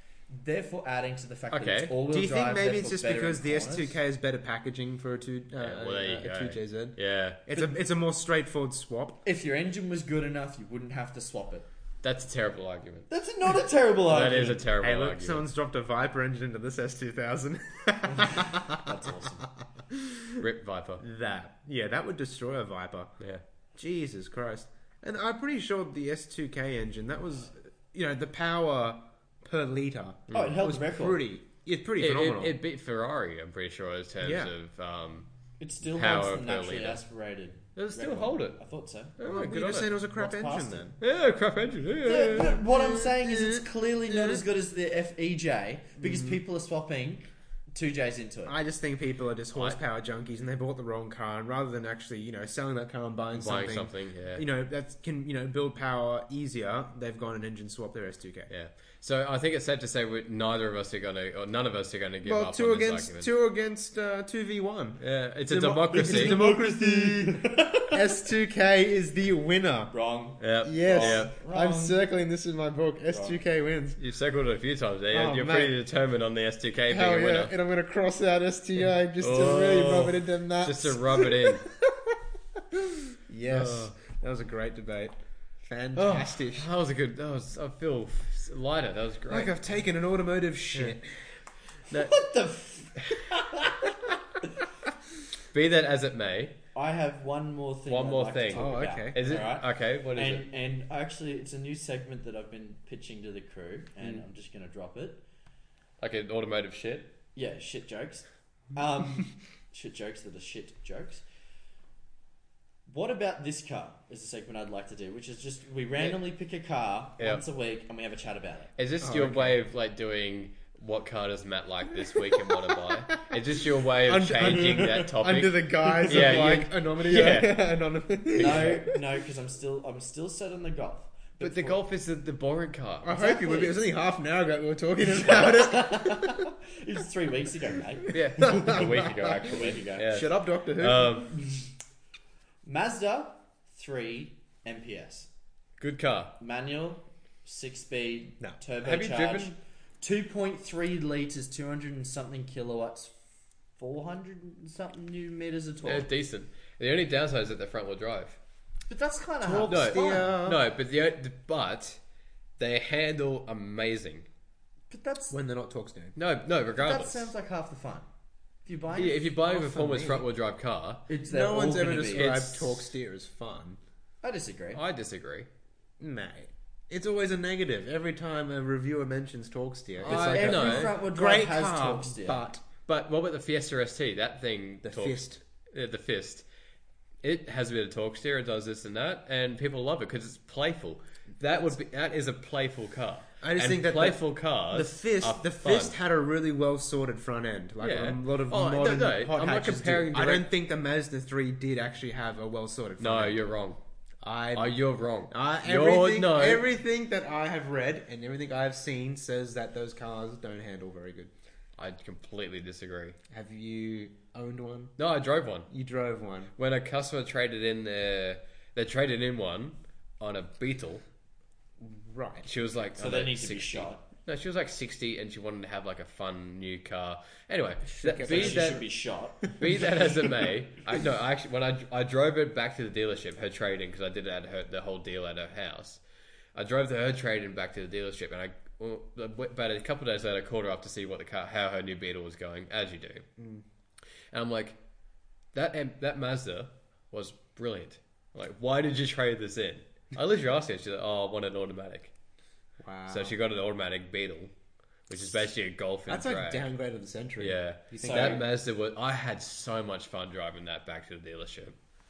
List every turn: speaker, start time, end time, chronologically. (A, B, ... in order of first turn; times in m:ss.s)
0:00.3-0:04.0 A
0:01.5-0:02.0 B
0:02.0-0:09.2 C
0:05.6-0:07.4 B
0:09.2-0:11.7 A
0:12.0-0:13.1 B
0:13.1-0:14.7 A
0:14.1-0:15.4 B
0:14.8-0:18.9 C
0:18.0-0:19.5 A
0:19.9-0:20.4 C
0:20.4-0:21.0 B
0:21.0-0:23.1 C
0:23.8-0:32.6 C
0:30.3-0:31.3 A
0:30.3-0:30.6 B
0:32.0-0:35.3 B
0:34.2-0:34.5 C
0:35.6-0:39.2 A
0:35.9-0:37.0 B
0:37.8-0:38.6 B
0:39.2-0:39.9 B
0:39.2-0:41.0 C
0:40.1-0:41.0 A
0:41.0-0:42.6 B
0:42.0-0:48.6 A
0:42.4-0:44.4 C
0:46.0-0:46.4 C
0:48.5-0:58.5 C
0:53.4-0:54.4 B
0:58.5-1:03.3 B
1:02.2-1:09.9 C
1:05.0-1:06.4 B
1:05.5-1:08.2 A
1:09.9-1:12.0 A
1:10.4-1:11.3 B
1:10.6-1:14.0 C
1:13.1-1:13.4 A
1:14.0-1:17.5 B
1:15.1-1:15.8 C
1:16.9-1:26.7 C
1:19.2-1:21.7 B
1:23.5-1:23.9 B
1:26.0-1:29.6 B
1:29.3-1:31.3 C
1:30.7-1:31.0 B
1:31.9-1:32.2 B
1:31.9-1:34.5 A
1:35.5-1:36.6 B
1:36.7-1:45.2 A
1:37.9-1:40.4 B
1:38.5-1:39.2 C
1:46.0-1:47.2 B
1:47.4-1:51.2 A
1:52.9-1:58.7 A
1:58.8-2:07.7 B
1:59.0-1:59.6 C
2:02.2-2:03.2 C
2:04.0-2:09.0 C
2:04.4-2:05.1 A
2:05.9-2:06.2 A
2:08.4-2:11.8 A
2:08.4-2:08.8 B
2:11.4-2:13.2 B
2:13.0-2:16.4 C
2:13.1-2:13.8 A
2:15.1-2:20.1 A
2:18.1-2:21.4 B
2:18.4-2:21.3 C
2:21.4-2:21.6 A
2:22.6-2:25.3 A
2:25.8-2:26.4 B
2:26.4-2:33.2 A
2:28.8-2:29.6 B
2:33.8-2:36.1 A
2:35.8-2:38.4 B
2:38.9-2:40.4 A
2:39.4-2:40.6 C
2:39.7-2:42.0 B
2:42.6-2:44.3 B
2:44.9-2:45.4 A
2:45.3-2:46.2 C
2:46.2-2:47.3 B
2:46.7-2:48.1 A
2:48.7-2:49.3 A
2:49.0-2:51.1 B
2:49.1-2:50.3 C
2:51.1-2:52.4 A
2:51.3-2:53.8 C
2:52.0-2:52.9 B
2:54.2-2:54.8 A
2:54.7-2:55.5 B
2:56.0-3:02.6 C
3:00.0-3:01.0 B
3:00.1-3:02.5 A
3:02.9-3:06.4 B
3:04.8-3:05.4 C
3:07.2-3:15.9 B
3:13.4-3:23.4 C
3:17.8-3:20.5 B
3:23.0-3:23.8 B
3:24.2-3:24.8 C
3:24.5-3:26.7 B
3:25.3-3:31.3 C
3:31.8-3:33.2 B
3:33.3-3:35.0 C
3:35.0-3:35.7 B
3:35.7-3:36.5 C
3:36.6-3:41.0 B
3:41.8-3:42.5 C
3:42.4-3:56.0 B
3:43.0-3:44.1 A
3:47.9-3:48.8 C
3:48.2-3:50.2 A
3:56.6-4:03.2 B
4:03.4-4:03.6 C
4:04.3-4:04.8 B
4:05.5-4:12.1 B
4:12.8-4:13.4 C
4:13.1-4:14.5 B
4:15.1-4:16.7 B
4:16.1-4:18.5 C
4:17.4-4:21.8 B
4:18.0-4:18.4 A